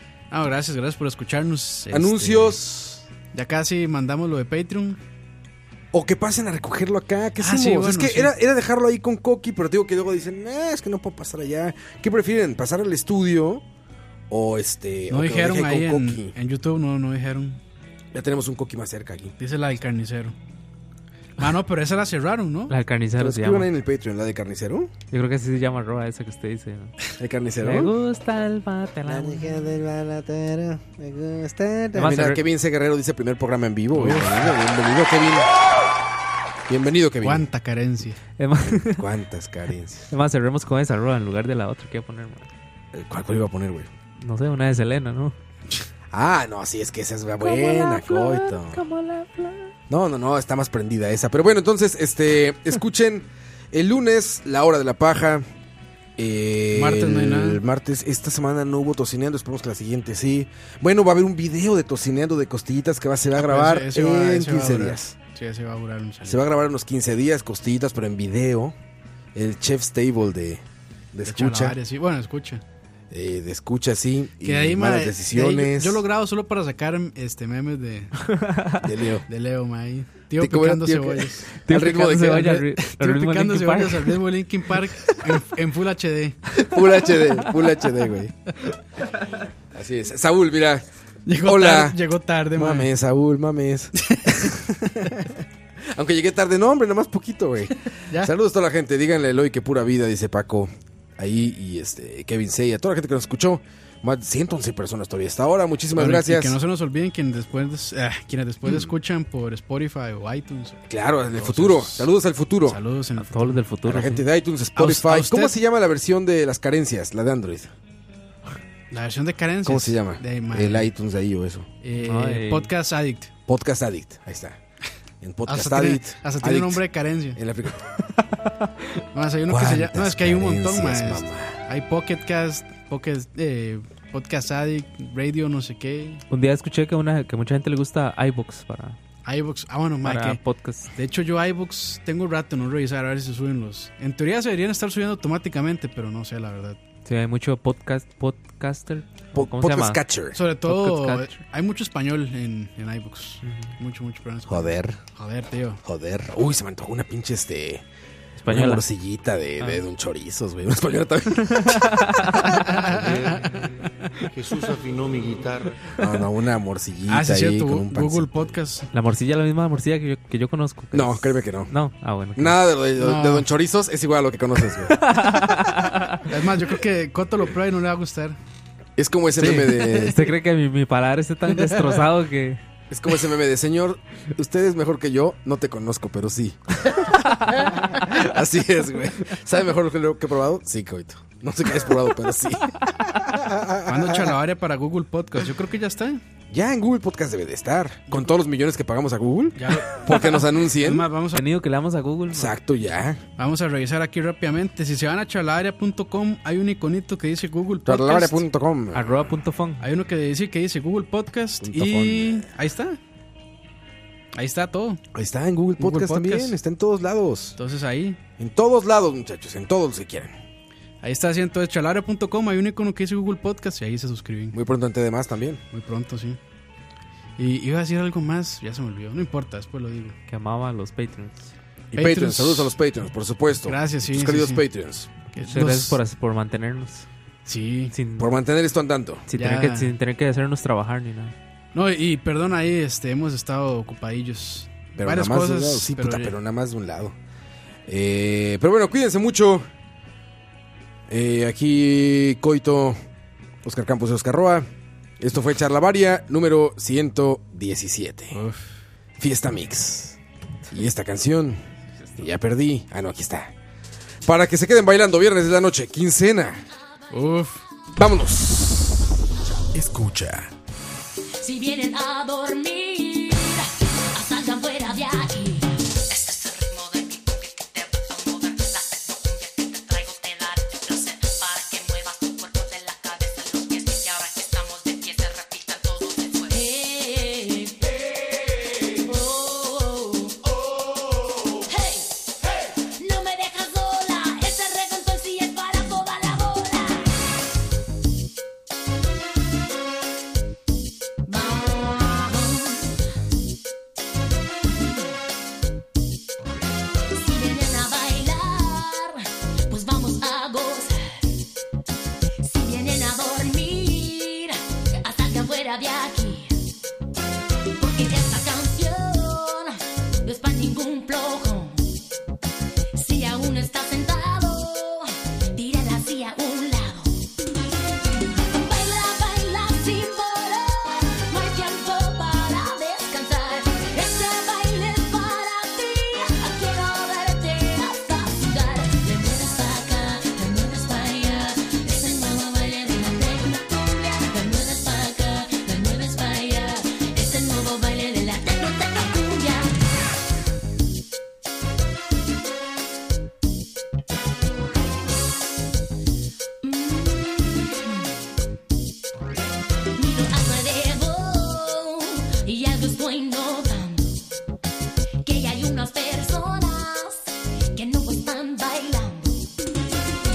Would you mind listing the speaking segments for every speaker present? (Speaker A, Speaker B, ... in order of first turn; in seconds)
Speaker A: 0.3-2.6, 3.3-5.0, 7.4-8.3, 15.1-17.6, 19.4-20.4, 21.4-22.7, 33.9-34.5, 37.2-38.2, 56.7-57.6, 63.4-66.4, 71.2-72.6, 74.4-78.1, 79.3-81.5, 82.3-86.5, 91.3-92.9, 94.0-95.2, 106.0-112.1, 112.7-113.6, 114.8-115.6, 118.9-120.9, 121.8-123.3, 125.5-127.4, 129.1-136.2, 139.2-140.4, 140.9-146.8, 150.3-155.8, 162.5-163.4, 167.1-168.9, 173.0-173.5, 176.3-178.4, 193.9-196.2, 199.6-201.4, 203.4-208.4, 209.8-213.0, 214.3-215.0, 215.8-216.6, 217.6-218.2, 221.0-224.6, 225.7-226.4, 227.4-230.2, 231.9-232.8, 233.7-234.7, 235.3-236.0, 237.5-237.9, 239.3-239.9, 241.7-246.3, 258.3-258.6, 267.1-267.6
Speaker B: 1.9-3.0, 5.9-13.6, 14.3-16.4, 18.1-19.3, 23.2-24.9, 27.2-27.9, 29.1-35.7, 36.7-37.5, 38.7-40.1, 42.9-43.9, 46.1-48.8, 49.9-55.5, 56.2-65.2, 66.2-68.8, 69.3-71.8, 73.1-76.0, 78.8-79.3, 80.4-82.5, 86.5-88.3, 89.7-90.8, 91.4-92.0, 92.5-95.3, 95.8-106.6, 110.9-112.8, 113.8-117.7, 119.7-121.7, 123.5-124.6, 125.2-126.8, 127.3-127.9, 129.5-131.6, 149.3-150.4, 154.5-155.0, 155.8-157.8, 158.5-162.4, 166.0-168.5, 170.9-171.7, 172.4-175.5, 179.0-180.3, 182.9-186.9, 187.7-194.4, 196.5-201.1, 202.3-203.2, 207.8-209.4, 211.6-212.5, 215.1-217.6, 218.4-220.4, 224.5-225.6, 231.9-235.1, 238.2-239.2, 245.0-247.2, 247.9-249.7, 251.1-253.0, 253.6-254.7, 255.2-258.4, 259.2-260.2, 260.7-261.6, 262.2-263.5, 264.2-266.6, 268.0-269.2, 269.7-270.5
Speaker C: 22.7-23.7, 25.1-26.9, 27.6-29.8, 31.9-32.4, 38.4-39.1, 40.1-42.5, 44.2-45.4, 47.4-49.7, 78.3-78.8, 81.7-84.2, 113.2-114.2, 122.0-122.7, 136.3-139.0, 140.0-140.9, 147.1-150.0, 150.7-151.4, 153.4-153.7, 158.4-158.8, 161.4-162.8, 168.9-172.6, 175.0-176.2, 179.4-182.6, 201.3-202.6, 208.9-209.8, 230.3-231.4, 235.4-237.1, 237.9-238.3, 239.3-241.3
Speaker D: 162.9-163.7, 164.3-165.9
Speaker E: 271.4-297.1, 301.2-302.9, 307.1-311.3, 312.4-316.6, 317.8-321.9, 322.9-327.2, 328.5-349.7, 356.6-358.1, 360.0-364.2, 365.2-369.5